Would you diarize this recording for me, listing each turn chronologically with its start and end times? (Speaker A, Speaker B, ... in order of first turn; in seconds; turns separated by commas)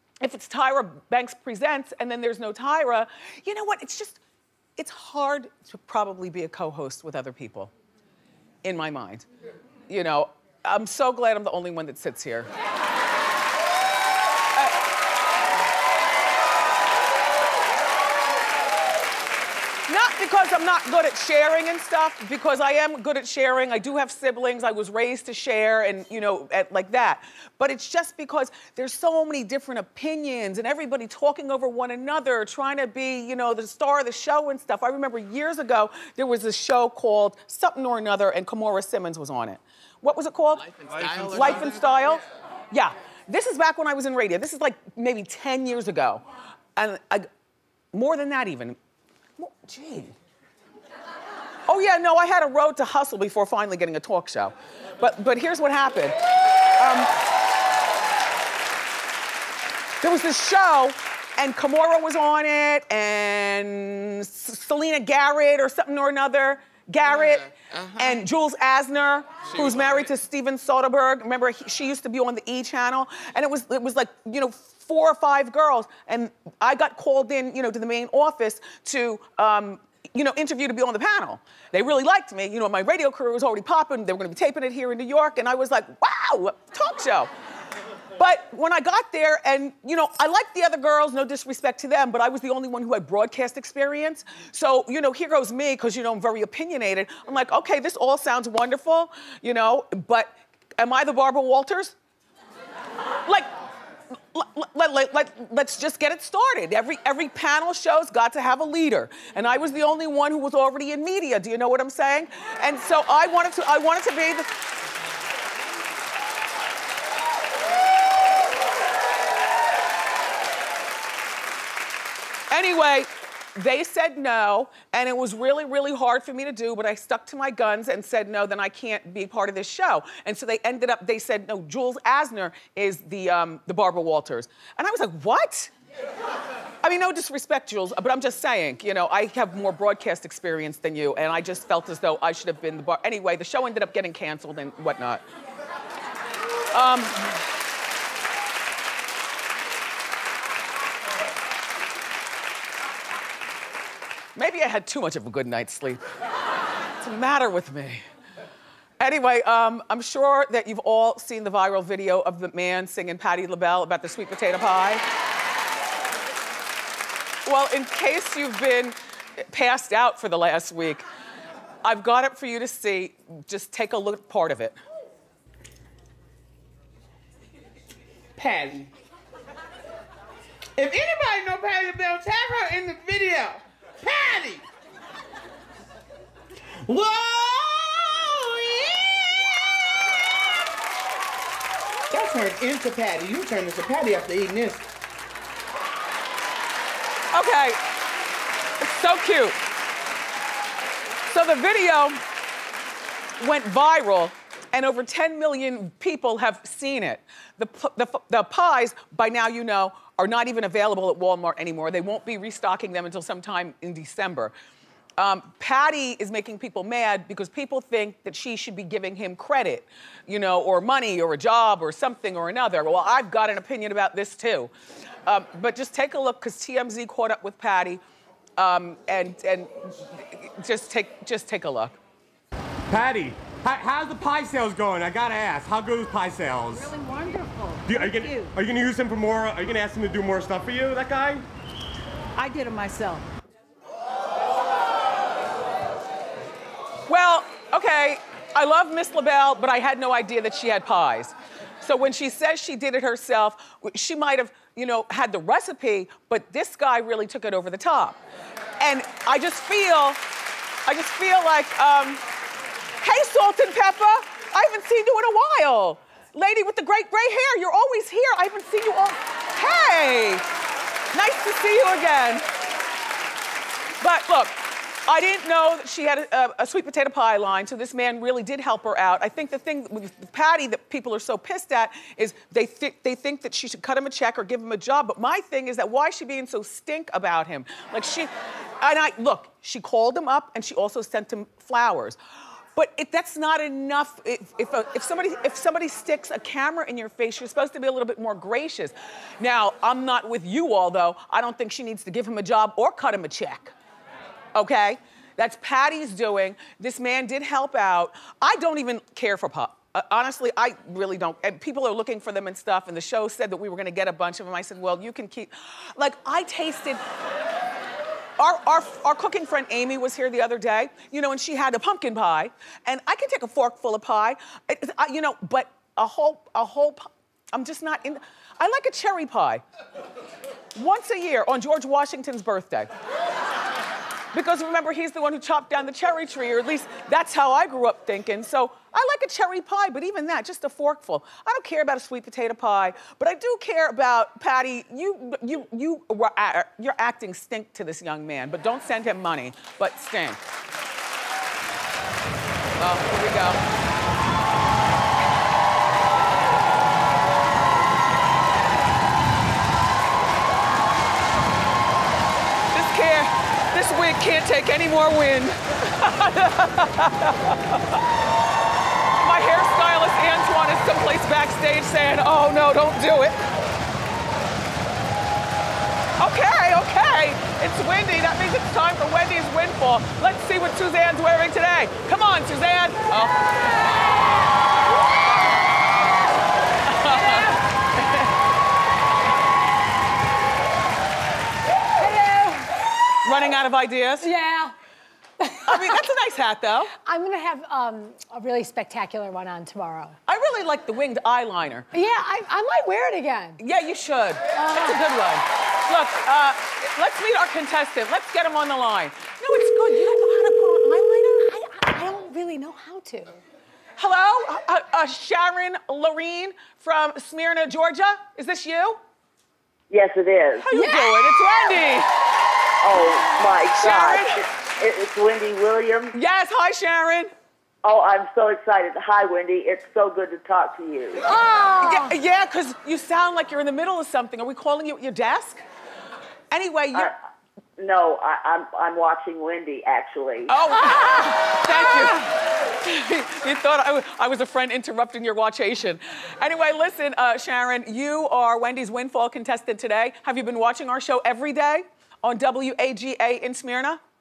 Speaker A: 0.2-4.2, Speaker A: 4.8-7.7, Speaker A: 8.6-9.3, Speaker A: 9.9-12.5, Speaker A: 19.9-46.2, Speaker A: 46.8-47.3, Speaker A: 47.9-48.8, Speaker A: 49.4-50.1, Speaker A: 51.7-56.1, Speaker A: 56.8-57.1, Speaker A: 60.0-87.3, Speaker A: 88.2-101.9, Speaker A: 104.3-114.5, Speaker A: 122.5-135.7, Speaker A: 136.8-145.2, Speaker A: 146.7-147.3, Speaker A: 154.3-156.0, Speaker A: 157.0-158.0, Speaker A: 159.0-165.0, Speaker A: 167.4-168.9, Speaker A: 169.5-171.0, Speaker A: 171.8-174.8, Speaker B: 178.4-178.9, Speaker B: 180.8-184.6, Speaker B: 186.9-189.6, Speaker B: 192.1-194.8, Speaker A: 197.3-197.8, Speaker A: 198.8-199.6, Speaker A: 201.3-202.2, Speaker A: 203.4-214.5, Speaker A: 215.2-224.7, Speaker A: 225.2-228.0, Speaker A: 228.6-232.0, Speaker C: 232.9-236.9, Speaker D: 236.7-238.6, Speaker C: 237.8-241.5, Speaker D: 242.3-243.3, Speaker A: 247.1-258.2, Speaker A: 258.8-260.2, Speaker A: 260.9-262.2, Speaker A: 263.0-270.4, Speaker A: 271.1-272.4, Speaker A: 274.0-292.2, Speaker A: 292.8-303.7, Speaker A: 304.5-317.0, Speaker A: 318.4-329.6, Speaker A: 330.7-332.9, Speaker A: 334.3-350.4, Speaker A: 352.8-353.6, Speaker A: 362.7-368.0, Speaker A: 369.2-373.4, Speaker A: 376.2-383.4, Speaker A: 386.8-388.3, Speaker E: 387.0-387.6, Speaker E: 392.0-392.8, Speaker A: 393.2-394.3, Speaker E: 394.2-394.7, Speaker E: 395.4-396.0, Speaker A: 395.6-396.9, Speaker E: 397.0-400.2, Speaker A: 400.3-401.9, Speaker E: 401.9-403.6, Speaker A: 403.6-411.4, Speaker E: 404.5-405.0, Speaker E: 410.8-413.4, Speaker A: 414.0-419.0, Speaker F: 419.9-420.6, Speaker A: 420.6-422.1, Speaker E: 420.7-421.8, Speaker F: 422.8-426.1, Speaker A: 423.7-424.4, Speaker A: 426.1-427.3, Speaker F: 427.8-431.2, Speaker E: 431.2-432.1, Speaker A: 431.8-435.6, Speaker A: 436.5-437.1, Speaker F: 437.8-440.5, Speaker A: 440.5-442.3, Speaker E: 440.7-442.3, Speaker A: 442.8-454.0